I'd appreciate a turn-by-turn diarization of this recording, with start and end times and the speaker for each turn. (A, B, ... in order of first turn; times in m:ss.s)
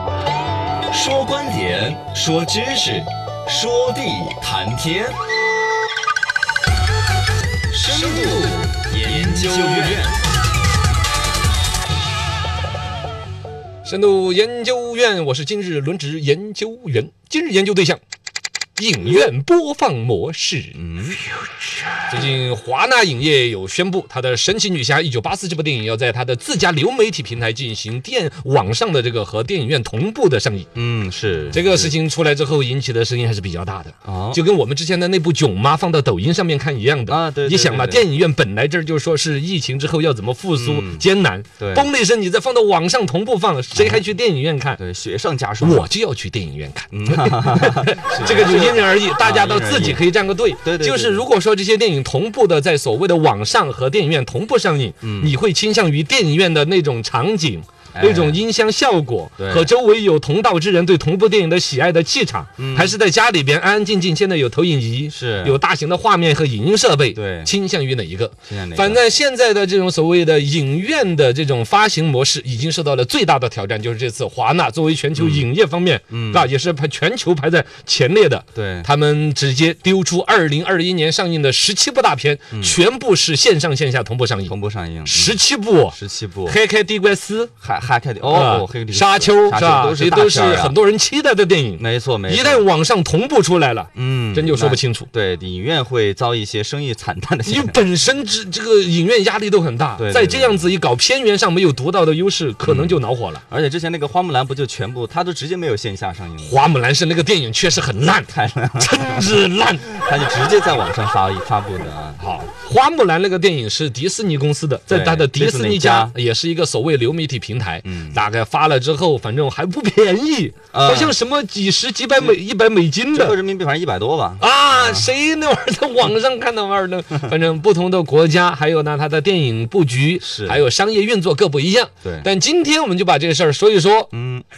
0:00.9-0:05.2 A
0:07.7-0:10.2 A
0:07.9-0:08.6 B
0:09.1-0:10.0 B
0:13.8-0:18.0 B
0:18.8-0:20.8 B
0:20.8-0:21.2 A
0:22.1-0:30.7 B
0:30.8-0:32.0 A
0:31.5-0:44.8 B
0:34.0-0:34.4 A
0:37.1-0:38.1 A
0:40.5-0:41.1 A
0:41.6-0:41.9 A
0:43.7-0:44.0 A
0:44.8-0:45.9 A
0:45.6-1:24.5 B
0:46.9-0:50.1 A
0:50.6-0:51.3 A
0:55.0-0:55.4 A
0:57.9-0:58.4 A
0:59.4-0:59.7 A
1:02.6-1:03.0 A
1:05.1-1:05.6 A
1:07.2-1:07.5 A
1:08.5-1:09.0 A
1:15.2-1:15.5 A
1:16.1-1:16.5 A
1:18.6-1:18.9 A
1:22.5-1:22.8 A
1:24.5-1:26.6 A
1:25.1-1:27.5 B
1:27.6-1:30.8 A
1:28.3-1:35.1 B
1:31.8-1:32.7 A
1:33.9-1:37.8 A
1:37.5-1:43.4 B
1:40.0-1:40.7 A
1:42.6-1:46.6 A
1:46.4-1:49.9 B
1:48.3-1:49.3 A
1:49.9-1:52.2 A
1:52.2-2:03.4 B
1:54.9-1:56.2 A
1:57.8-1:58.2 A
2:00.7-2:01.2 A
2:02.1-2:02.4 A
2:03.1-2:05.1 A
2:04.4-2:14.1 B
2:10.2-2:10.6 A
2:12.0-2:12.3 A
2:14.1-2:14.4 A